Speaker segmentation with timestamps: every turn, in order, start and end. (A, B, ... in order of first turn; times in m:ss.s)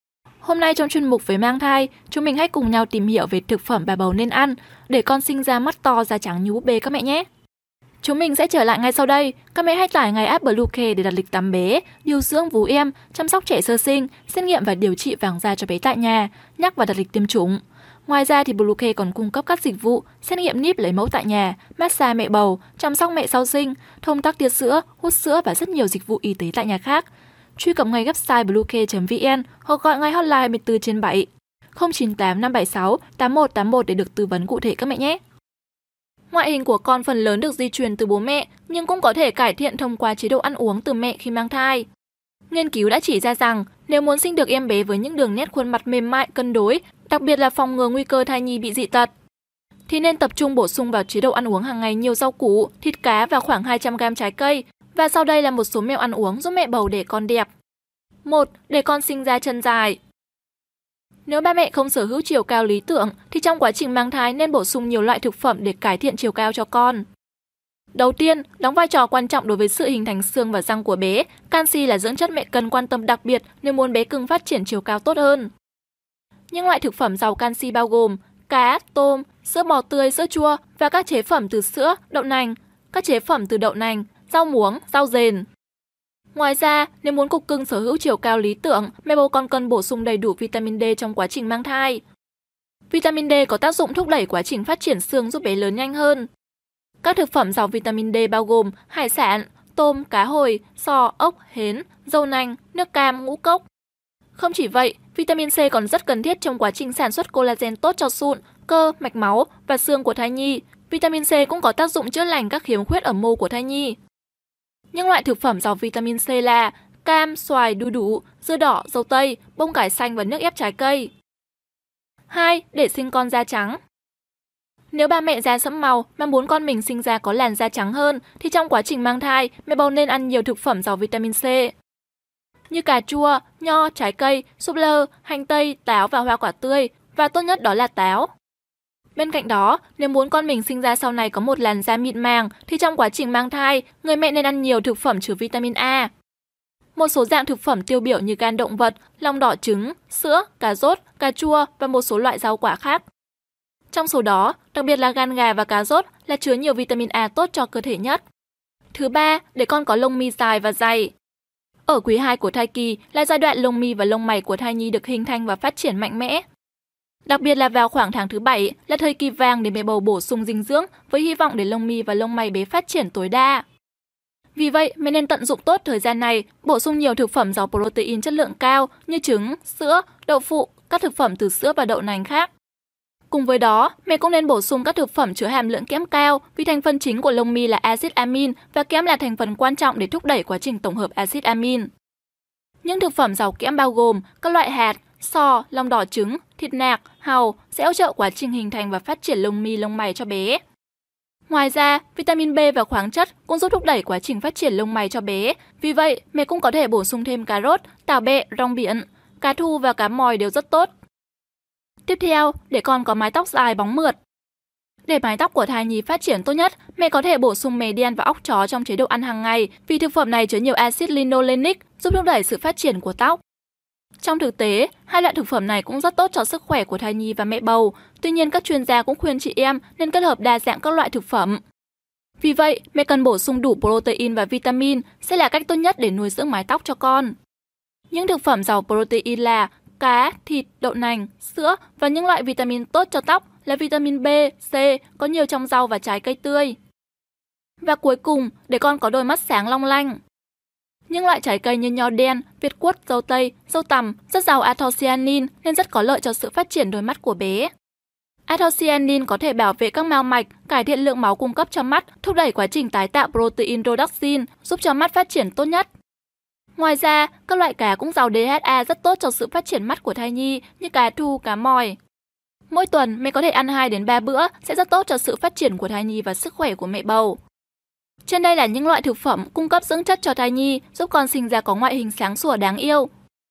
0:00.4-0:07.3 A
0:08.0-0:35.2 A
0:36.3-0:41.9 A
0:42.5-0:49.1 A
0:49.9-0:57.5 A
0:58.2-1:00.0 A
1:01.3-1:07.0 A
1:07.9-1:15.5 A
1:16.5-1:25.5 A
1:26.3-1:32.0 A
1:32.9-1:36.3 A
1:37.0-1:43.6 A
1:44.4-1:54.0 A
1:54.9-2:01.1 A
2:02.3-2:03.8 A
2:04.9-2:11.7 A
2:12.7-2:18.3 A
2:19.2-2:26.1 A
2:27.0-2:33.0 A
2:33.9-2:38.2 A
2:38.9-2:41.1 A
2:41.9-2:46.4 A
2:47.3-2:53.6 A
2:54.6-3:02.5 A
3:03.3-3:11.9 A
3:12.8-3:20.6 A
3:21.5-3:30.9 A
3:32.1-3:34.2 A
3:35.0-3:43.4 A
3:44.2-3:51.6 A
3:52.4-3:57.4 A
3:58.1-4:06.8 A
4:07.8-4:10.2 A
4:11.1-4:17.7 A
4:18.5-4:25.9 A
4:26.8-4:32.0 A
4:32.7-4:37.4 A
4:38.3-4:43.1 A